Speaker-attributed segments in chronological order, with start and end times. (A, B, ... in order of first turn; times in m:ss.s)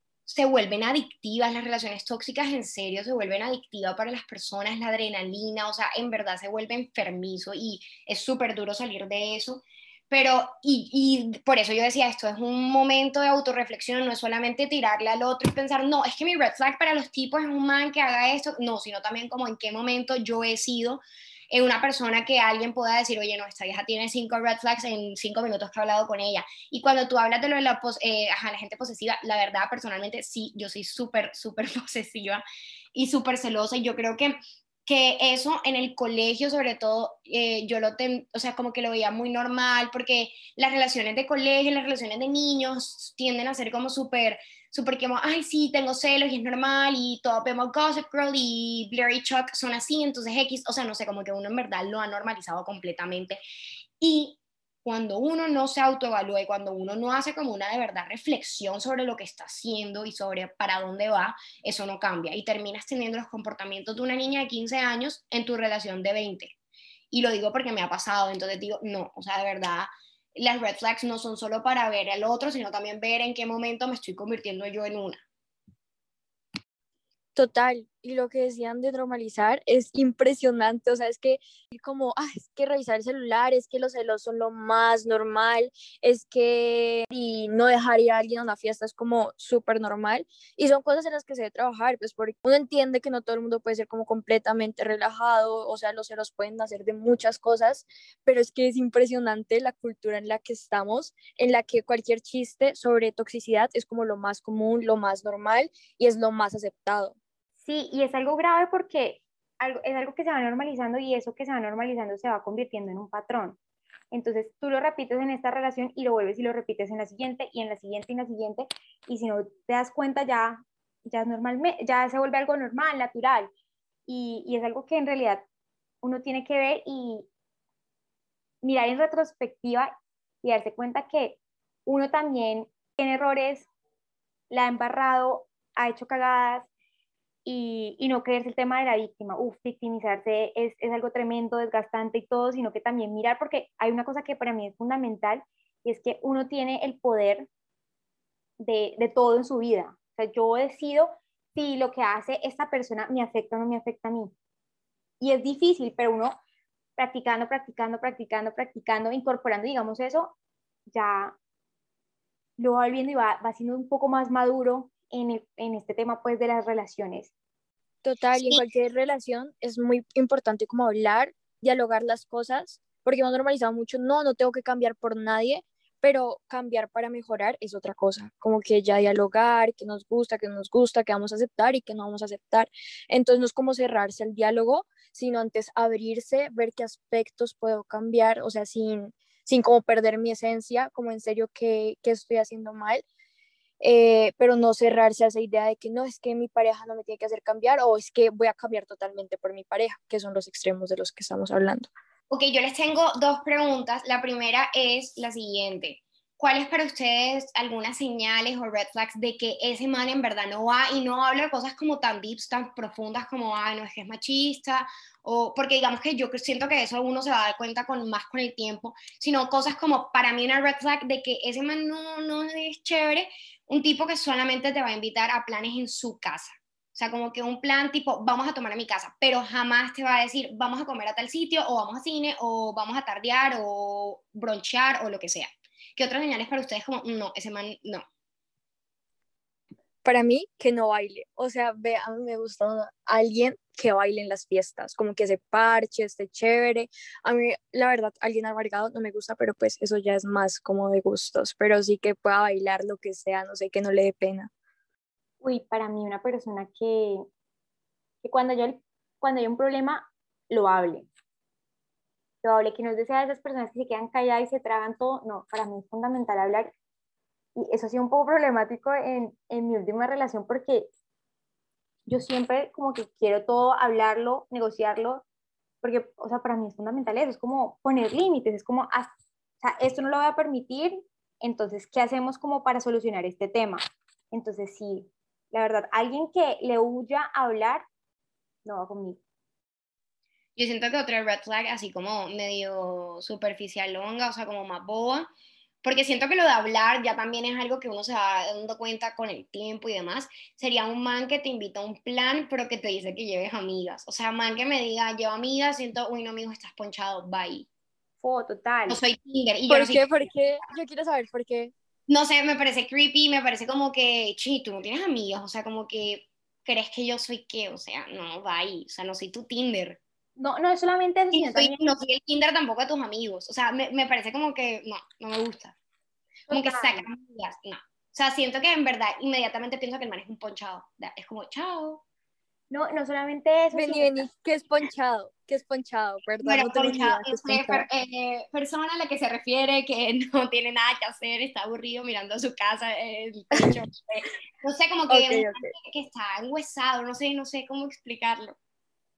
0:00.3-0:53.4 A
0:54.0-1:06.6 A
1:07.1-1:15.2 A
1:17.4-1:47.2 B
1:47.6-1:53.6 C
1:54.1-2:03.5 C
2:04.1-2:05.4 C
2:06.0-2:07.3 C
2:08.6-2:09.9 C
2:10.4-2:13.7 C
2:14.5-2:16.7 C
2:17.4-2:27.5 C
2:28.6-2:34.3 C
2:35.2-2:36.4 C
2:37.0-2:40.3 C
2:40.9-2:41.4 C
2:42.6-2:47.3 C
2:48.0-3:13.0 B
3:13.8-3:21.9 B
3:22.3-3:58.0 A
4:00.0-4:14.5 B
4:15.4-4:17.2 C
4:18.2-4:21.1 C
4:22.4-4:26.7 C
4:27.6-4:30.9 C
4:32.1-4:35.2 C
4:35.8-4:43.8 C
4:44.3-4:47.9 C
4:48.6-4:49.2 C
4:50.6-4:55.3 A
4:55.8-5:07.7 A
5:08.2-5:09.0 C
5:08.9-5:10.2 A
5:09.7-5:11.7 B
5:12.1-5:20.0 A
5:20.4-5:21.8 C
5:21.3-5:25.8 A
5:26.5-5:27.1 C
5:26.5-5:32.0 A
5:32.7-5:34.3 C
5:33.7-5:37.9 B
5:36.4-5:48.6 A
5:45.1-5:45.7 B